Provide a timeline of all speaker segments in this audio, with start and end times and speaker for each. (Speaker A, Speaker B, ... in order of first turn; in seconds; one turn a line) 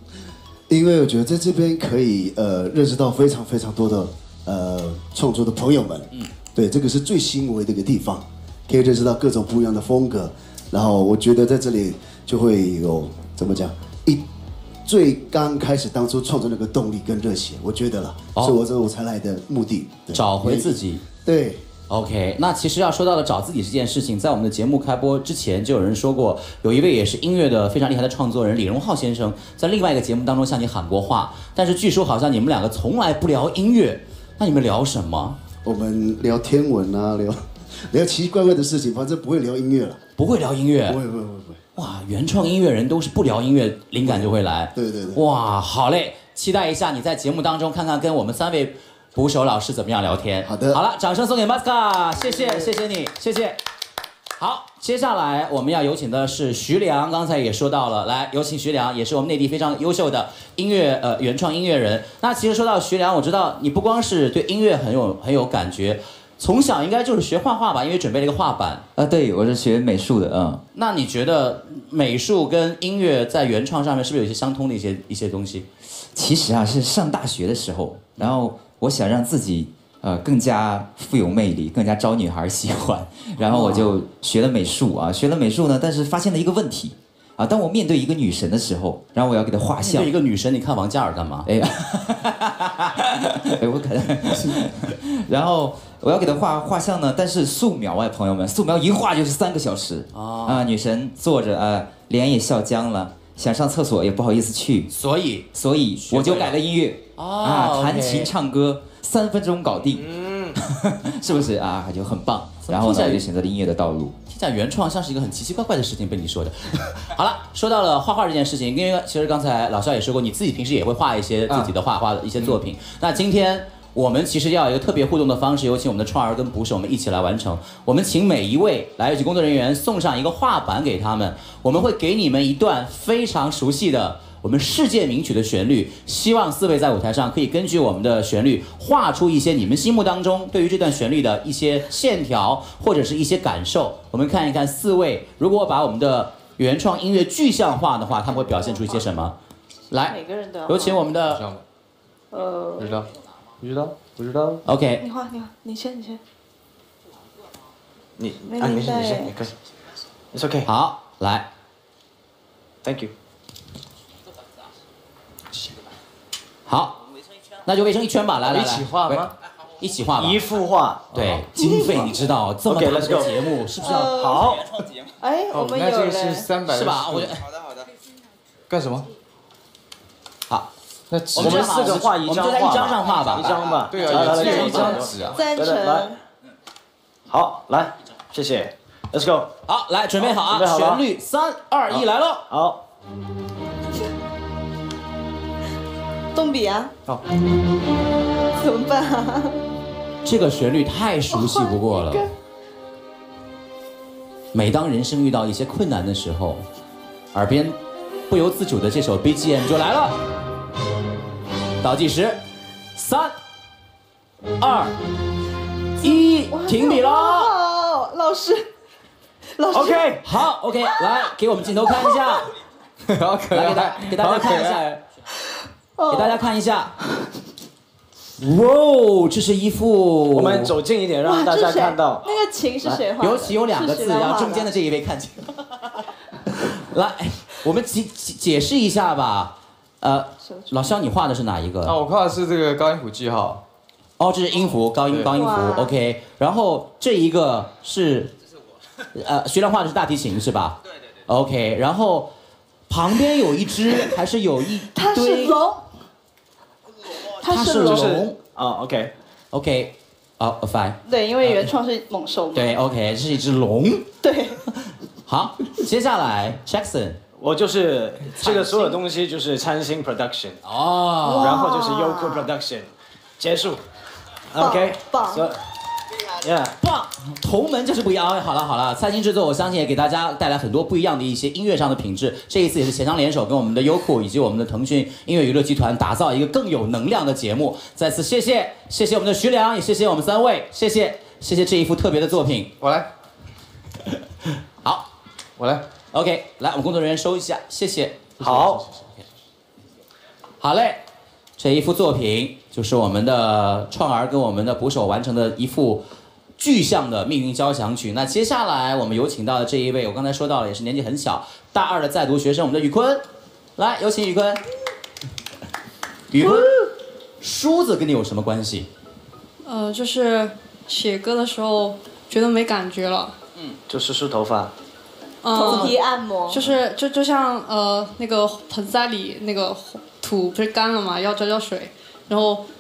Speaker A: 0.7-14.2
Speaker A: 14.8-21.6
Speaker B: 20.1-21.0
Speaker B: 21.9-35.4
Speaker A: 35.6-40.0
Speaker B: 40.2-41.0
Speaker A: 40.9-41.6
Speaker B: 41.8-53.6
Speaker A: 44.0-45.2
Speaker A: 50.4-50.8
Speaker A: 52.4-52.7
Speaker B: 54.4-68.8
Speaker C: 69.0-70.6
Speaker B: 70.7-75.7
Speaker C: 76.1-90.1
Speaker B: 83.5-83.9
Speaker B: 89.8-91.5
Speaker C: 91.5-92.4
Speaker C: 93.4-104.9
Speaker B: 100.1-100.7
Speaker B: 104.9-105.5
Speaker C: 105.5-110.1
Speaker B: 106.0-106.6
Speaker B: 107.2-108.3
Speaker D: 109.9-110.6
Speaker C: 110.7-114.1
Speaker B: 112.7-113.2
Speaker B: 114.3-149.4
Speaker E: 148.5-149.0
Speaker B: 149.9-150.2
Speaker E: 150.1-151.1
Speaker B: 150.7-151.4
Speaker F: 151.2-151.6
Speaker E: 152.3-152.9
Speaker F: 152.8-153.1
Speaker F: 153.6-154.6
Speaker B: 154.6-155.0
Speaker E: 155.0-156.2
Speaker D: 158.2-159.5
Speaker E: 158.5-159.3
Speaker D: 160.3-160.7
Speaker B: 160.7-161.4
Speaker D: 162.8-163.1
Speaker B: 166.7-167.0
Speaker B: 167.6-168.9
Speaker F: 168.4-169.3
Speaker B: 169.8-170.4
Speaker D: 170.2-171.1
Speaker F: 171.1-171.4
Speaker B: 171.1-174.4
Speaker E: 171.6-171.9
Speaker D: 172.7-173.3
Speaker E: 173.8-174.4
Speaker D: 173.9-174.7
Speaker E: 175.2-176.5
Speaker F: 175.5-177.4
Speaker B: 176.7-177.5
Speaker F: 178.7-179.1
Speaker F: 181.1-181.7
Speaker B: 181.3-184.9
Speaker D: 181.4-186.1
Speaker F: 183.9-185.4
Speaker E: 184.3-186.2
Speaker D: 187.3-189.5
Speaker B: 189.7-192.4
Speaker D: 190.2-191.0
Speaker D: 191.9-192.8
Speaker E: 196.3-196.9
Speaker E: 198.6-199.6
Speaker B: 200.2-202.3
Speaker E: 201.3-202.3
Speaker B: 204.5-206.6
Speaker B: 207.3-210.2
Speaker B: 211.8-212.4
Speaker B: 212.9-213.4
Speaker B: 214.6-214.9
Speaker B: 216.0-217.5
Speaker E: 216.5-218.7
Speaker E: 219.6-220.2
Speaker D: 219.7-220.1
Speaker B: 220.2-222.5
Speaker F: 223.1-224.8
Speaker B: 223.5-225.0
Speaker E: 226.0-226.4
Speaker B: 226.1-226.9
Speaker B: 228.4-230.7
Speaker D: 230.3-232.2
Speaker E: 231.2-234.7
Speaker B: 233.2-235.9
Speaker B: 236.5-242.0
Speaker E: 240.4-240.9
Speaker F: 241.8-243.6
Speaker B: 244.2-248.3
Speaker F: 245.1-245.3
Speaker E: 245.3-245.9
Speaker B: 249.1-252.3
Speaker B: 252.9-255.6
Speaker E: 254.9-255.8
Speaker E: 257.4-258.1
Speaker B: 257.4-258.4
Speaker D: 257.7-259.1
Speaker B: 259.5-261.6
Speaker E: 261.1-262.8
Speaker B: 262.6-264.1
Speaker E: 264.2-264.6
Speaker B: 265.2-267.2
Speaker D: 267.4-270.6
Speaker E: 268.4-268.9
Speaker B: 270.6-271.6
Speaker E: 271.2-272.5
Speaker D: 271.4-273.8
Speaker D: 274.5-275.6
Speaker E: 274.6-275.5
Speaker D: 276.4-276.7
Speaker B: 276.8-292.7
Speaker F: 292.8-293.1
Speaker B: 294.8-295.1
Speaker F: 295.6-295.8
Speaker B: 296.1-298.4
Speaker D: 298.4-298.8
Speaker F: 298.4-298.9
Speaker B: 300.6-301.0
Speaker B: 301.6-306.1
Speaker B: 306.6-313.2
Speaker B: 313.8-314.6
Speaker B: 316.3-316.8
Speaker B: 317.4-318.9
Speaker G: 319.6-323.3
Speaker D: 323.9-324.7
Speaker G: 325.4-332.6
Speaker E: 325.5-326.6